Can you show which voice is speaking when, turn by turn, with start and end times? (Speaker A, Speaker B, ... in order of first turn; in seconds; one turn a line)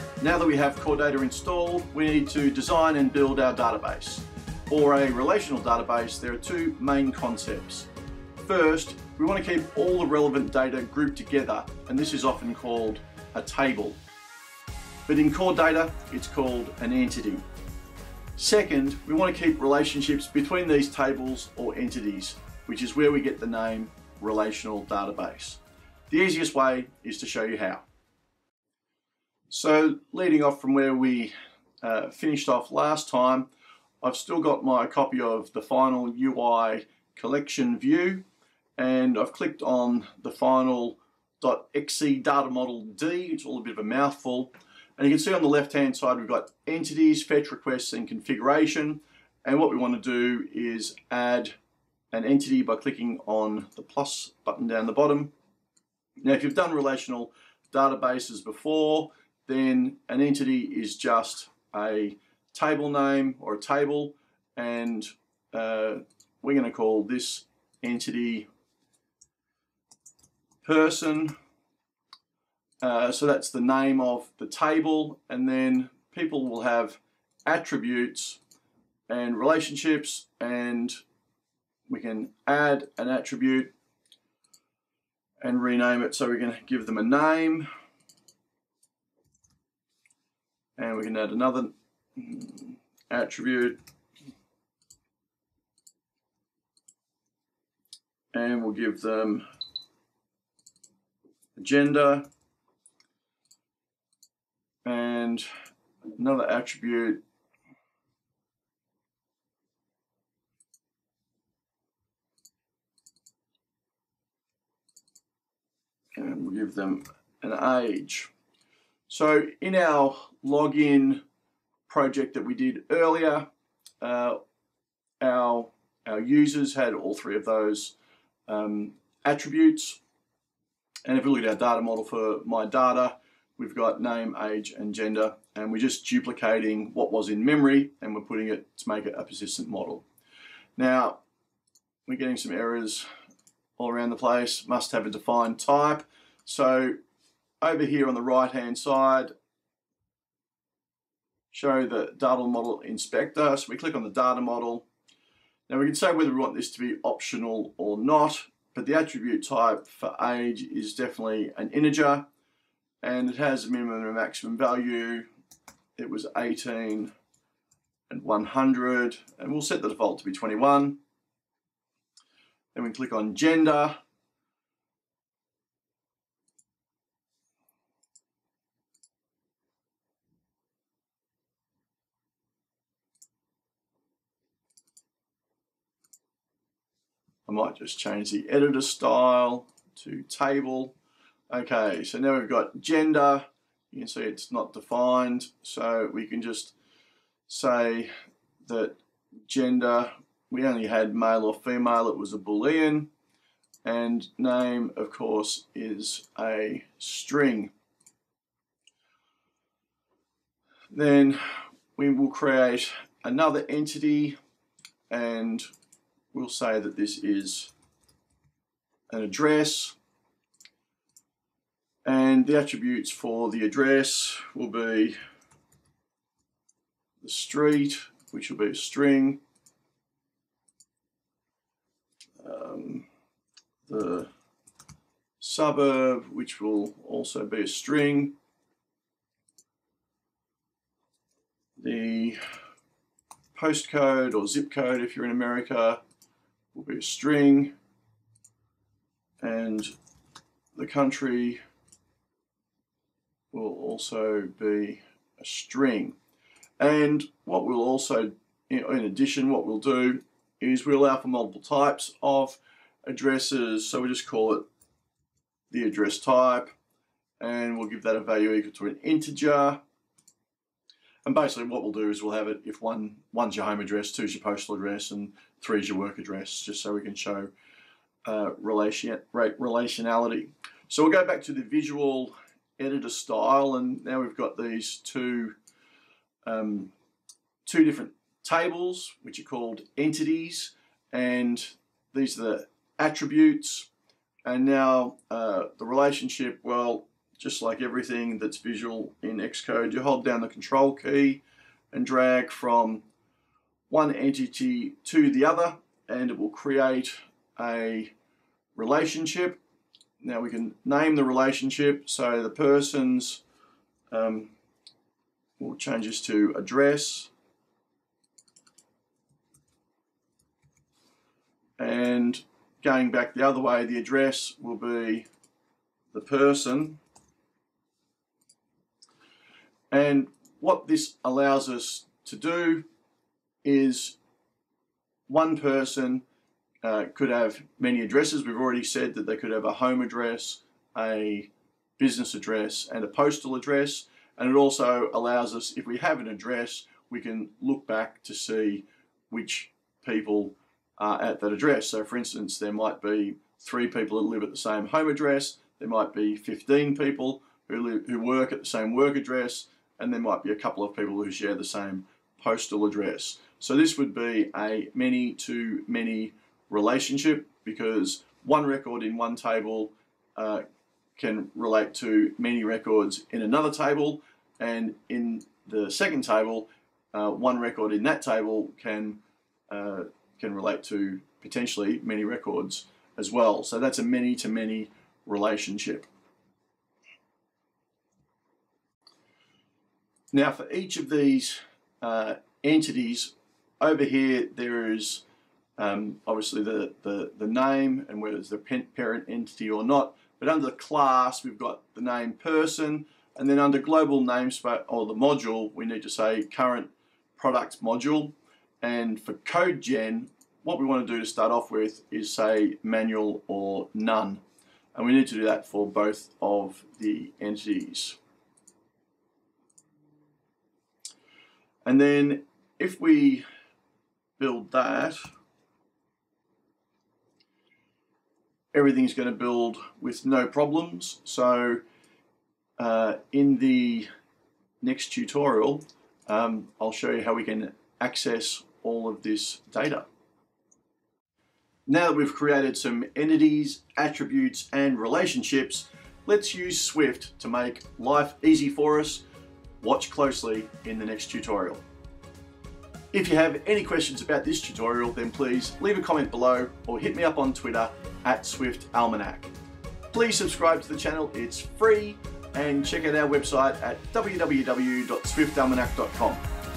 Speaker A: 0.2-7.9
Speaker A: 8.4-14.0
Speaker A: 15.1-17.4
Speaker A: 18.4-27.8
Speaker A: 29.5-33.5
Speaker A: 34.0-38.2
Speaker A: 38.8-51.5
Speaker A: 52.1-55.3
Speaker A: 56.2-68.5
Speaker A: 70.6-71.3
Speaker A: 72.8-78.4
Speaker A: 79.1-81.0
Speaker A: 81.9-83.7
Speaker A: 85.4-87.7
Speaker A: 90.8-93.8
Speaker A: 98.3-99.4
Speaker A: 101.5-102.3
Speaker A: 104.8-105.5
Speaker A: 106.2-107.2
Speaker A: 116.2-118.3
Speaker A: 119.1-121.2
Speaker A: 121.9-123.5
Speaker A: 124.0-124.4
Speaker A: 125.2-127.9
Speaker A: 128.5-130.0
Speaker A: 131.1-140.0
Speaker A: 140.8-141.2
Speaker A: 142.1-143.1
Speaker A: 143.8-147.0
Speaker A: 147.6-149.3
Speaker A: 151.5-154.9
Speaker A: 155.7-162.3
Speaker A: 163.0-165.3
Speaker A: 165.9-167.1
Speaker A: 168.1-171.0
Speaker A: 172.7-174.0
Speaker A: 187.4-190.9
Speaker A: 191.5-196.7
Speaker A: 197.5-198.1
Speaker A: 198.6-203.1
Speaker A: 203.8-207.7
Speaker A: 210.9-214.4
Speaker A: 215.1-215.7
Speaker A: 216.3-217.7
Speaker A: 219.1-219.9
Speaker A: 222.0-225.2
Speaker A: 227.2-229.4
Speaker A: 232.4-233.1
Speaker A: 233.9-234.3
Speaker A: 235.4-238.3
Speaker A: 241.8-242.4
Speaker A: 243.5-246.0
Speaker A: 246.7-247.7
Speaker A: 249.4-249.9
Speaker A: 250.7-251.6
Speaker A: 253.5-256.2
Speaker A: 256.8-264.7
Speaker A: 265.7-266.7
Speaker A: 267.4-269.8
Speaker A: 271.2-277.5
Speaker A: 278.2-285.6
Speaker A: 286.4-286.9
Speaker A: 287.6-293.9
Speaker A: 294.4-303.0
Speaker A: 303.9-308.1
Speaker A: 308.7-309.6
Speaker A: 310.2-313.4
Speaker A: 314.1-314.5
Speaker A: 315.6-317.3
Speaker A: 321.8-325.3
Speaker A: 326.1-327.0
Speaker A: 329.9-332.8
Speaker A: 333.6-334.2
Speaker A: 335.3-336.2
Speaker A: 336.8-370.6
Speaker A: 371.1-386.1
Speaker A: 390.3-395.2
Speaker A: 395.8-414.4
Speaker A: 414.9-418.2
Speaker A: 421.8-423.4
Speaker A: 424.4-425.3
Speaker A: 428.7-431.8
Speaker A: 432.8-434.1
Speaker A: 434.8-440.1
Speaker A: 441.9-449.2
Speaker A: 449.8-451.8
Speaker A: 453.1-459.5
Speaker A: 460.1-466.4